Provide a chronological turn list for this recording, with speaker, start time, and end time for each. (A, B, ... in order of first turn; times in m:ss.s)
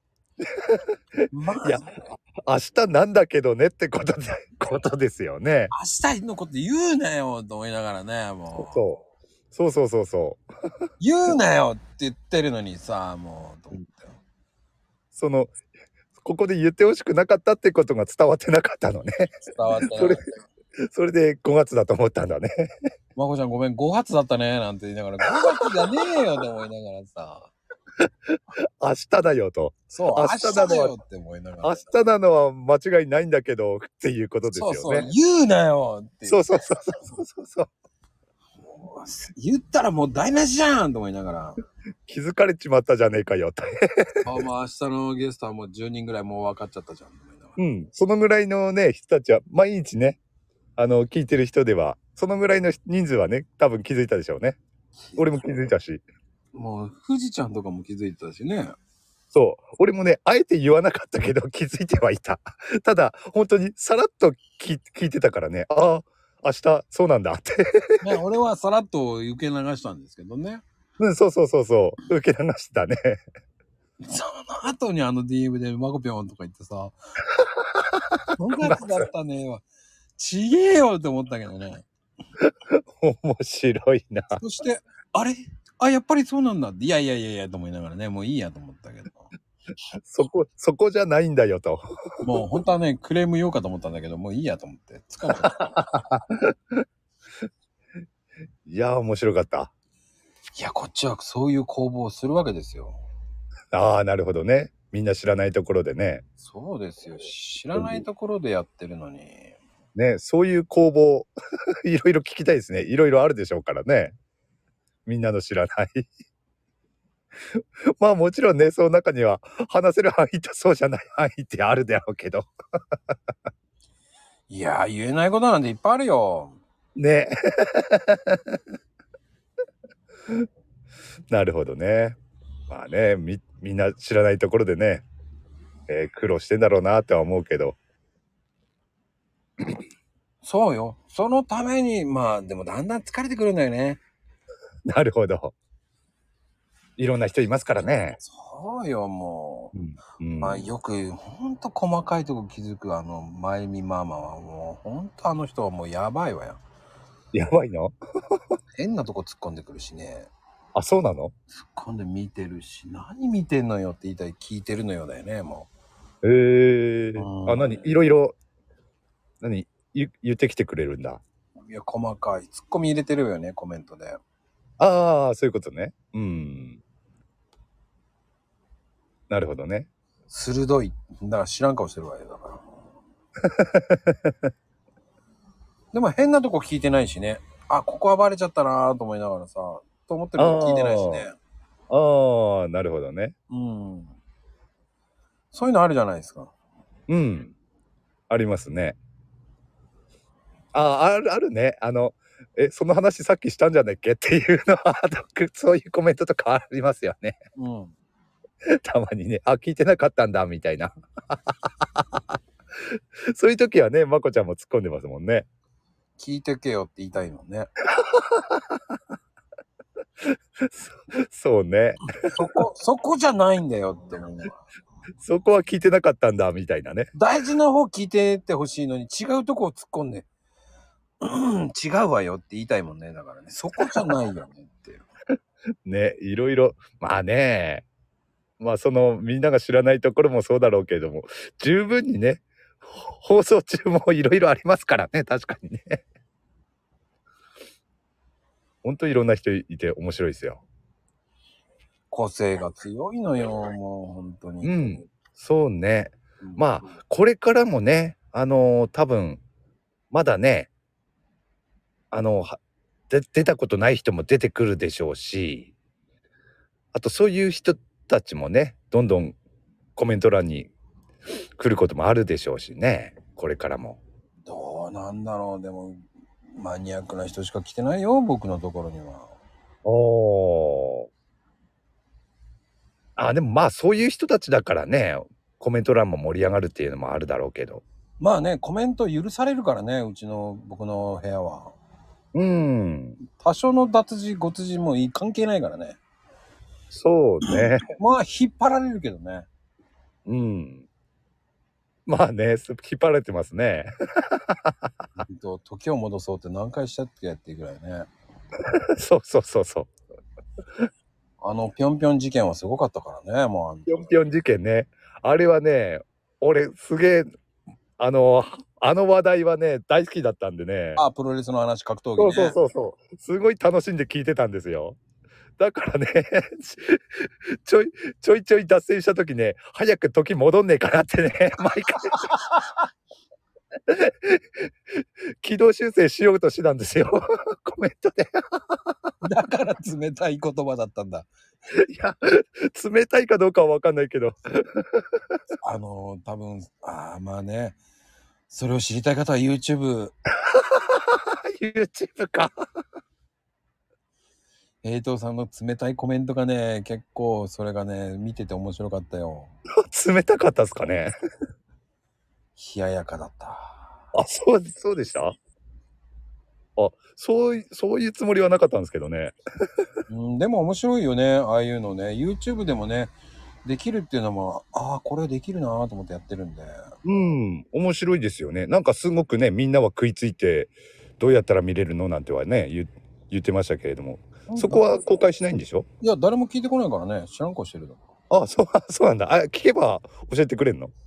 0:00.6-0:01.0 A
0:01.3-0:02.2 B
0:02.5-0:05.7 A
0:05.7-0:09.0 B
0:08.6-0:10.4 A
0:11.0-0:14.2 B
0:15.1-0:15.5 A
0:16.2-0:19.4 A
0:19.4-0:20.2 B
0:19.9-0:20.2 A
0:20.9-0:22.7 A
0:23.2-0:27.5 B
0:28.0-0:30.9 A
0:29.9-0:31.8 B
0:31.6-0:35.1 A
0:34.5-0:36.6 B
0:36.3-0:37.7 A
0:38.6-0:41.6 B
0:42.1-0:44.3 A
0:44.2-0:47.6 B
0:47.6-0:50.2 A
0:50.8-0:54.6 A
0:55.1-0:55.5 B
0:55.2-0:56.0 A
0:56.5-0:58.8 B
0:59.3-1:08.0 A
1:08.0-1:10.6 B
1:11.0-1:13.2 A
1:14.0-1:17.0 B
1:17.4-1:19.0 A
1:18.4-1:19.6 B
1:20.2-1:21.9 B
1:22.4-1:24.4 A
1:24.4-1:29.3 B
1:30.0-1:32.2 A
1:32.2-1:35.9 B
1:35.5-1:36.8 A
1:38.7-1:39.7 A
1:40.6-1:43.0 B
1:43.7-1:46.2 A
1:46.4-1:49.6 B
1:47.8-1:48.0 A
1:50.0-1:51.3 A
1:51.8-1:54.2 A
1:55.1-1:56.1 A
1:57.5-2:02.5 A
2:04.5-2:06.6 B
2:07.0-2:08.6 A
2:11.3-2:12.2 A
2:12.7-2:15.1 A
2:15.9-2:17.8 A
2:20.4-2:24.0 B
2:24.9-2:25.6 A
2:27.0-2:28.2 A
2:28.2-2:29.7 B
2:29.7-2:30.6 A
2:30.4-2:36.6 B
2:37.3-2:38.4 A
2:38.8-2:40.3 B
2:40.8-2:41.3 A
2:41.5-2:45.7 B
2:46.2-2:48.4 A
2:47.2-2:48.0 B
2:49.4-2:51.2 A
2:51.6-2:54.2 B
2:54.8-2:56.8 A
2:59.3-2:59.9 A
3:00.3-3:02.6 B
3:03.4-3:04.5 A
3:05.9-3:11.4 B
3:10.4-3:11.3 A
3:11.9-3:13.3 A
3:13.5-3:14.2 B
3:15.5-3:16.5 B
3:17.1-3:17.5 A
3:18.3-3:19.0 A
3:20.7-3:27.4 A
3:27.6-3:28.0 B
3:28.8-3:32.0 A
3:32.9-3:35.5 A
3:36.2-3:37.7 B
3:37.9-3:38.8 A
3:40.2-3:42.0 A
3:42.2-3:44.6 B
3:45.2-3:47.1 A
3:47.1-3:50.3 B
3:51.2-3:55.1 B
3:53.8-3:54.0 A
3:55.9-3:57.9 A
3:58.6-4:06.0 A
4:08.8-4:10.6 A
4:12.1-4:15.0 B
4:14.6-4:19.4 A
4:20.1-4:20.7 A
4:22.1-4:22.6 A
4:23.1-4:25.7 A
4:26.9-4:29.4 A
4:30.0-4:30.7 A
4:31.6-4:34.0 A
4:34.5-4:39.3 B
4:39.8-4:41.1 A
4:43.2-4:47.8 A
4:48.2-4:51.8 B
4:52.3-4:53.2 A
4:53.3-4:56.0 B
4:56.9-4:57.8 A
4:57.5-4:59.5 B
5:00.3-5:00.8 A
5:02.1-5:04.9 A
5:05.3-5:08.1 B
5:09.0-5:09.9 A
5:11.4-5:14.2 B
5:13.9-5:17.3 A
5:18.0-5:21.0 A
5:21.0-5:22.6 B
5:22.2-5:25.0 A
5:25.6-5:32.3 A
5:32.2-5:32.7 B
5:33.9-5:34.7 A
5:35.4-5:38.9 A
5:39.2-5:41.3 B
5:41.8-5:45.1 A
5:45.6-5:47.8 B
5:48.5-5:50.2 B
5:50.5-5:52.7 A
5:54.8-5:59.5 B
5:59.8-6:01.2 A
6:02.6-6:04.0 B
6:04.1-6:05.4 A
6:06.8-6:09.4 A
6:10.1-6:16.9 B
6:17.0-6:25.9 A
6:24.5-6:24.8 B
6:26.0-6:28.0 B
6:28.3-6:30.9 A